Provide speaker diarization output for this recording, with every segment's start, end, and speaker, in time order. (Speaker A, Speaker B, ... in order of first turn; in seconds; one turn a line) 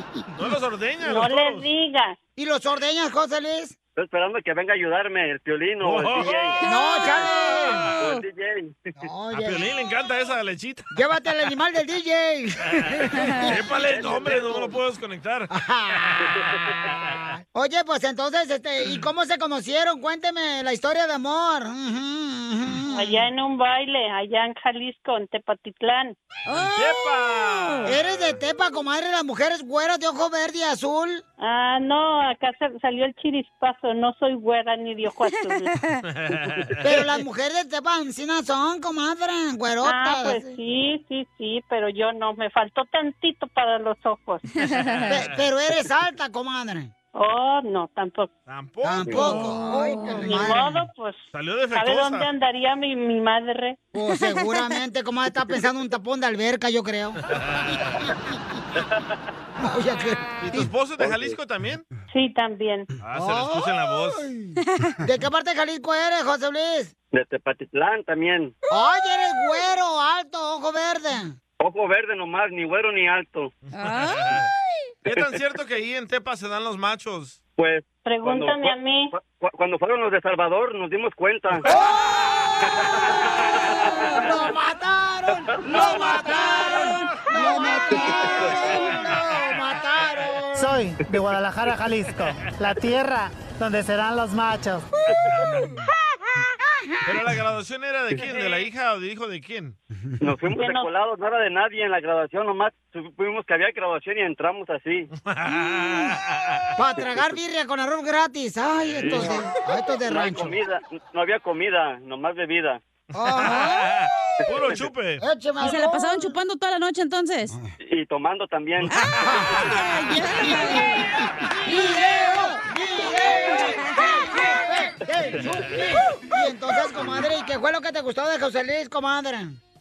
Speaker A: 0.3-1.7
Speaker B: 1.0-2.2
Speaker C: 2.4-3.8
Speaker D: 3.9-6.6
Speaker A: 5.8-6.6
Speaker C: 6.6-7.9
Speaker E: 6.6-8.2
Speaker A: 7.6-8.0
Speaker D: 7.9-8.9
Speaker C: 9.0-9.7
Speaker A: 9.3-10.9
Speaker C: 10.9-13.6
Speaker A: 13.4-17.2
Speaker D: 13.7-14.8
Speaker C: 15.5-16.1
Speaker C: 17.5-23.2
Speaker B: 22.9-26.1
Speaker E: 26.4-27.9
Speaker A: 26.6-28.4
Speaker C: 27.9-31.2
Speaker B: 31.4-35.7
Speaker E: 35.7-36.0
Speaker A: 36.1-37.0
Speaker C: 36.8-40.5
Speaker B: 39.8-44.5
Speaker E: 44.6-45.1
Speaker A: 44.7-45.4
Speaker C: 45.1-46.9
Speaker B: 47.1-48.3
Speaker A: 48.5-49.7
Speaker C: 48.8-50.8
Speaker E: 49.3-50.3
Speaker B: 50.2-53.8
Speaker A: 50.3-50.5
Speaker A: 51.3-52.3
Speaker C: 53.9-57.2
Speaker A: 57.3-57.8
Speaker C: 59.6-60.7
Speaker A: 60.4-61.9
Speaker B: 62.1-62.9
Speaker A: 63.0-64.3
Speaker C: 63.1-66.9
Speaker D: 67.1-68.5
Speaker C: 68.7-71.4
Speaker D: 71.6-73.5
Speaker E: 73.7-74.4
Speaker A: 73.8-74.5
Speaker A: 75.0-77.4
Speaker D: 77.6-81.7
Speaker B: 78.0-79.1
Speaker C: 81.6-82.4
Speaker D: 82.7-83.9
Speaker C: 83.1-90.7
Speaker A: 85.6-90.3
Speaker E: 86.5-86.8
Speaker F: 90.5-93.6
Speaker F: 94.3-94.7
Speaker A: 97.0-99.8
Speaker D: 100.2-105.1
Speaker B: 100.5-100.9
Speaker A: 105.2-106.7
Speaker C: 106.8-110.6
Speaker A: 108.9-109.4
Speaker D: 109.0-109.4
Speaker D: 110.0-112.8
Speaker C: 113.1-114.0
Speaker A: 113.2-115.2
Speaker C: 115.2-116.3
Speaker E: 115.6-117.5
Speaker D: 117.8-119.0
Speaker A: 118.9-119.7
Speaker E: 118.9-121.0
Speaker C: 119.2-119.5
Speaker C: 120.8-121.0
Speaker C: 121.6-129.6
Speaker A: 125.4-125.8